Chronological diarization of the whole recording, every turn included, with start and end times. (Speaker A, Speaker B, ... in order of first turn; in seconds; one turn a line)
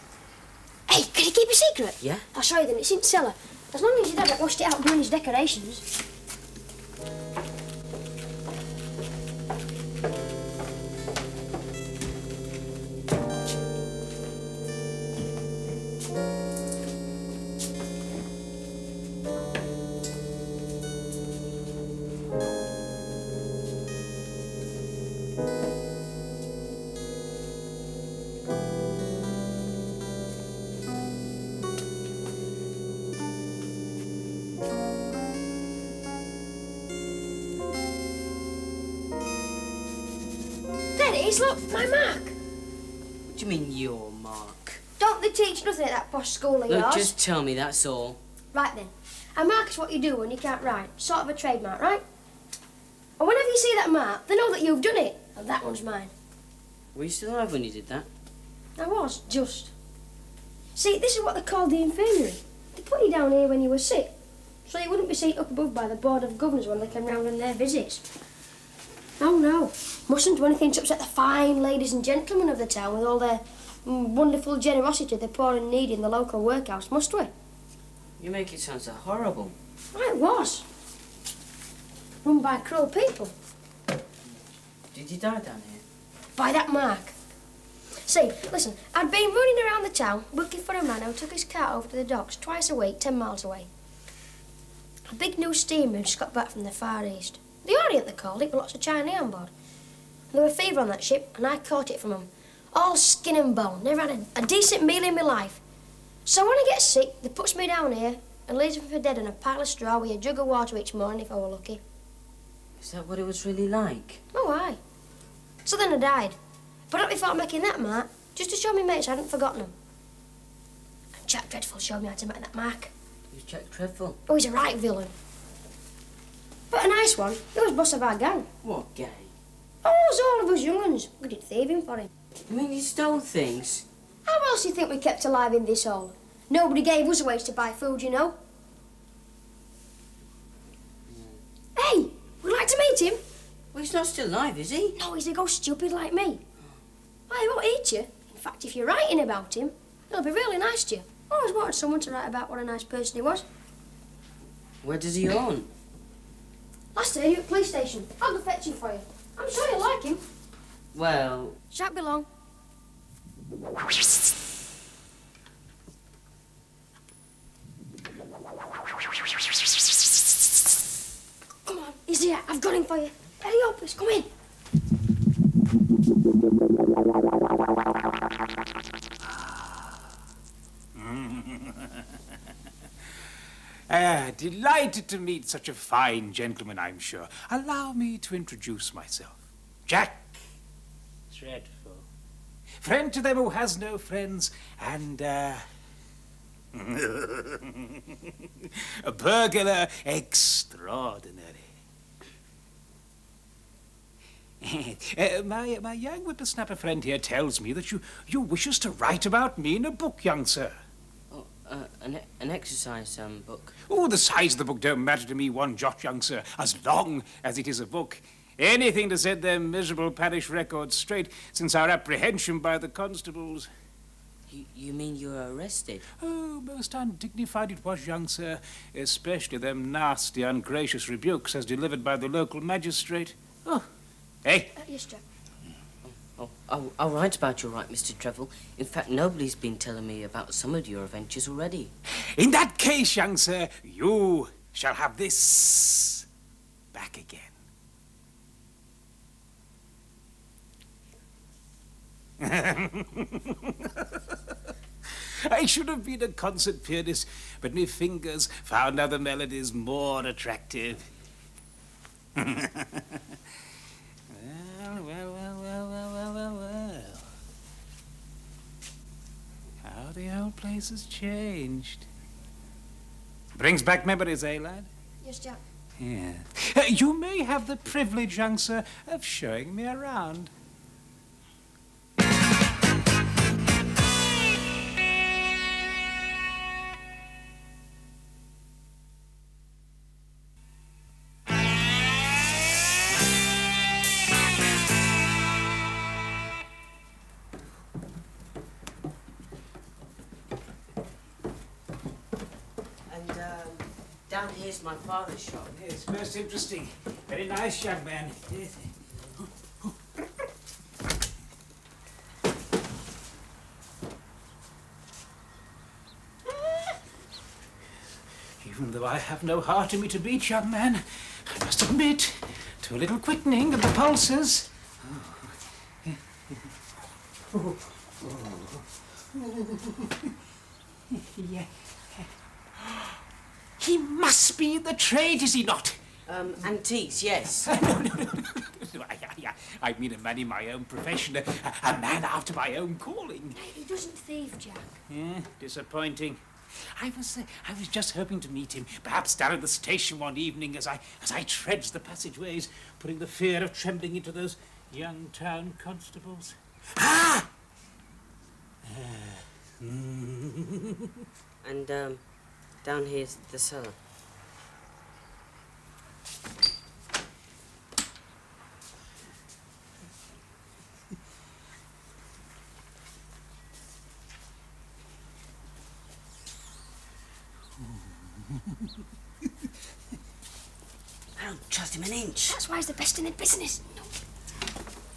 Speaker A: 0.9-5.8
Speaker B: 2.0-2.2
Speaker A: 41.0-42.3
Speaker B: 43.3-44.8
Speaker A: 45.0-47.1
Speaker B: 46.7-48.2
Speaker A: 48.5-52.0
Speaker A: 53.2-56.1
Speaker B: 56.9-58.1
Speaker A: 58.8-59.7
Speaker A: 60.8-64.1
Speaker A: 64.6-68.1
Speaker A: 69.2-77.3
Speaker B: 78.2-79.5
Speaker A: 79.9-80.6
Speaker A: 82.2-83.3
Speaker B: 84.9-85.8
Speaker A: 86.3-87.1
Speaker A: 88.0-93.7
Speaker A: 95.1-99.5
Speaker A: 100.3-105.6
Speaker A: 106.2-111.8
Speaker B: 112.8-114.2
Speaker A: 114.3-114.8
Speaker A: 115.6-116.3
Speaker A: 116.9-119.7
Speaker A: 121.2-122.9
Speaker B: 123.3-124.2
Speaker A: 124.3-125.1
Speaker A: 126.7-128.5
Speaker B: 128.6-129.3
Speaker A: 129.8-132.1
Speaker B: 132.5-133.8
Speaker A: 134.2-138.3
Speaker B: 141.1-141.4
Speaker A: 141.8-143.2
Speaker B: 143.7-145.0
Speaker A: 144.9-146.4
Speaker A: 147.3-153.4
Speaker B: 154.8-155.7
Speaker A: 156.9-160.2
Speaker B: 160.9-161.6
Speaker A: 161.7-162.3
Speaker A: 171.7-174.3
Speaker C: 179.2-180.2
Speaker C: 180.9-182.4
Speaker C: 183.9-190.5
Speaker C: 191.3-192.1
Speaker C: 192.8-195.7
Speaker C: 196.7-201.7
Speaker C: 204.6-210.8
Speaker B: 211.3-213.7
Speaker C: 213.8-223.7
Speaker B: 224.5-226.0
Speaker C: 226.2-233.9
Speaker C: 234.4-234.7
Speaker A: 234.8-235.2
Speaker B: 236.1-241.9
Speaker C: 242.1-246.3
Speaker C: 246.9-247.6
Speaker C: 252.4-261.1
Speaker C: 262.3-263.4
Speaker C: 264.3-267.3
Speaker C: 269.8-272.1
Speaker C: 273.5-274.9
Speaker A: 275.2-275.6
Speaker C: 276.0-280.5
Speaker B: 303.1-305.7
Speaker C: 305.7-310.4
Speaker C: 318.6-326.7
Speaker C: 327.5-330.3
Speaker C: 331.1-333.2
Speaker C: 333.8-336.0
Speaker B: 336.3-337.7
Speaker C: 337.6-343.7
Speaker A: 343.5-344.9
Speaker C: 345.1-357.5
Speaker C: 358.8-361.3
Speaker B: 361.6-362.2
Speaker B: 362.8-364.0
Speaker C: 377.8-378.9
Speaker B: 381.4-382.6
Speaker A: 382.5-384.1